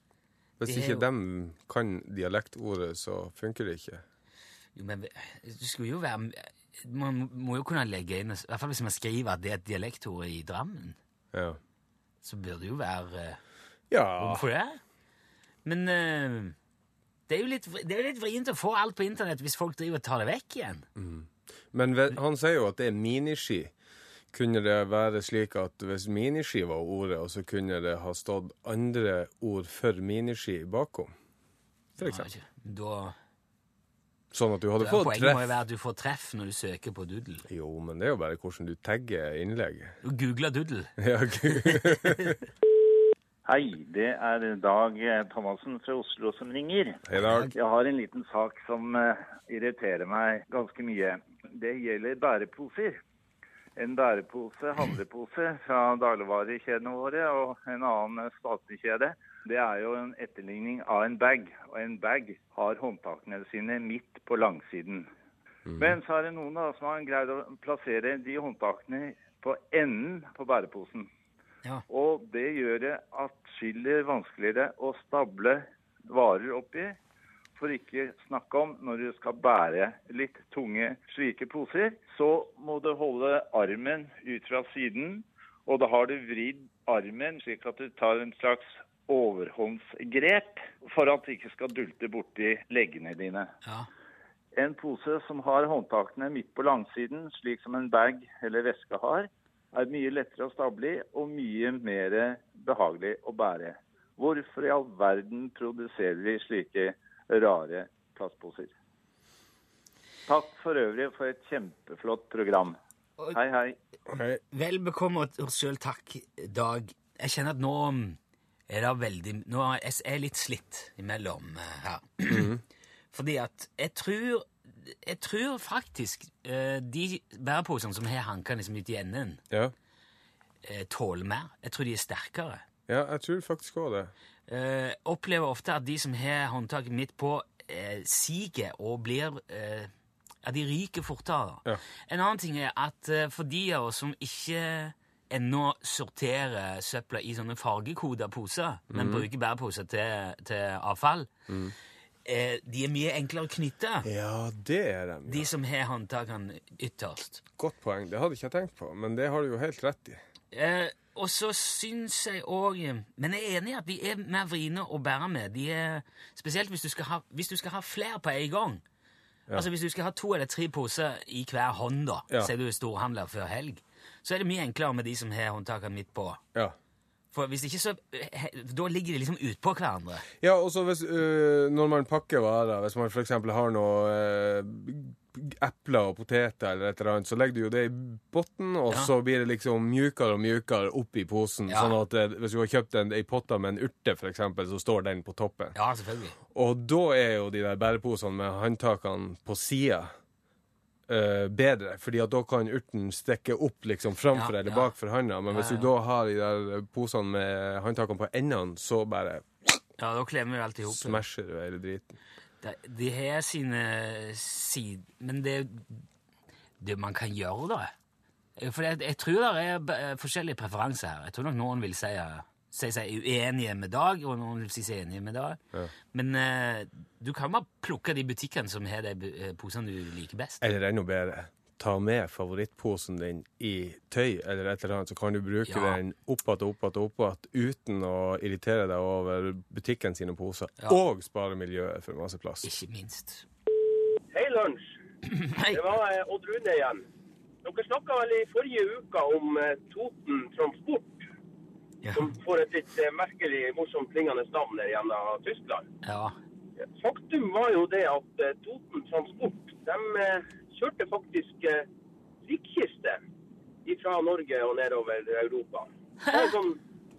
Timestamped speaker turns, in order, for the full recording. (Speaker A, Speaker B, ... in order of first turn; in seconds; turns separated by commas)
Speaker A: 0.6-4.0, Speaker B: 0.7-1.0, Speaker B: 4.8-11.0, Speaker A: 11.3-11.6, Speaker B: 12.2-13.4, Speaker A: 13.9-14.5, Speaker B: 14.2-14.8, Speaker B: 15.7-16.6, Speaker B: 17.3-20.9, Speaker A: 21.0-23.7, Speaker A: 24.3-31.1, Speaker A: 32.0-32.3, Speaker B: 32.0-33.2, Speaker A: 34.3-35.5, Speaker B: 34.8-37.5, Speaker A: 37.5-40.0, Speaker B: 40.0-40.9, Speaker A: 41.0-42.4, Speaker B: 41.6-42.0, Speaker C: 43.5-47.0, Speaker A: 47.1-47.5, Speaker B: 47.2-47.5, Speaker C: 47.5-53.0, Speaker C: 53.8-65.1, Speaker A: 65.7-66.0, Speaker C: 65.8-71.1, Speaker C: 71.9-77.0, Speaker C: 77.6-93.5, Speaker B: 93.6-93.9, Speaker C: 94.6-108.7, Speaker C: 110.3-112.8, Speaker C: 113.3-113.8, Speaker A: 114.1-114.4, Speaker B: 114.5-118.2, Speaker B: 118.7-122.5, Speaker A: 122.3-122.6, Speaker B: 123.1-129.4, Speaker B: 130.6-132.6, Speaker A: 132.9-134.1, Speaker B: 134.5-139.9, Speaker B: 140.4-151.3, Speaker A: 148.9-149.3, Speaker A: 151.5-151.7, Speaker B: 152.3-154.1, Speaker A: 154.0-155.5, Speaker B: 155.3-157.4, Speaker A: 157.6-160.2, Speaker B: 160.5-168.8, Speaker B: 169.5-176.4, Speaker B: 177.3-180.3, Speaker A: 180.4-195.8, Speaker B: 191.7-191.9, Speaker B: 195.8-196.3, Speaker A: 196.5-200.1, Speaker A: 201.1-209.8, Speaker B: 204.3-204.9, Speaker B: 205.5-205.9, Speaker B: 210.0-211.2, Speaker A: 210.8-212.2, Speaker B: 212.6-216.1, Speaker B: 216.8-217.9, Speaker B: 218.6-225.6, Speaker B: 226.1-230.6, Speaker A: 230.6-242.7, Speaker B: 235.7-236.0, Speaker B: 242.6-243.5, Speaker D: 244.3-244.9, Speaker B: 245.3-245.8, Speaker D: 245.7-247.0, Speaker D: 247.6-251.3, Speaker B: 252.0-252.3, Speaker D: 252.2-255.8, Speaker B: 256.0-256.4, Speaker D: 256.9-261.8, Speaker D: 262.4-263.2, Speaker D: 263.9-266.8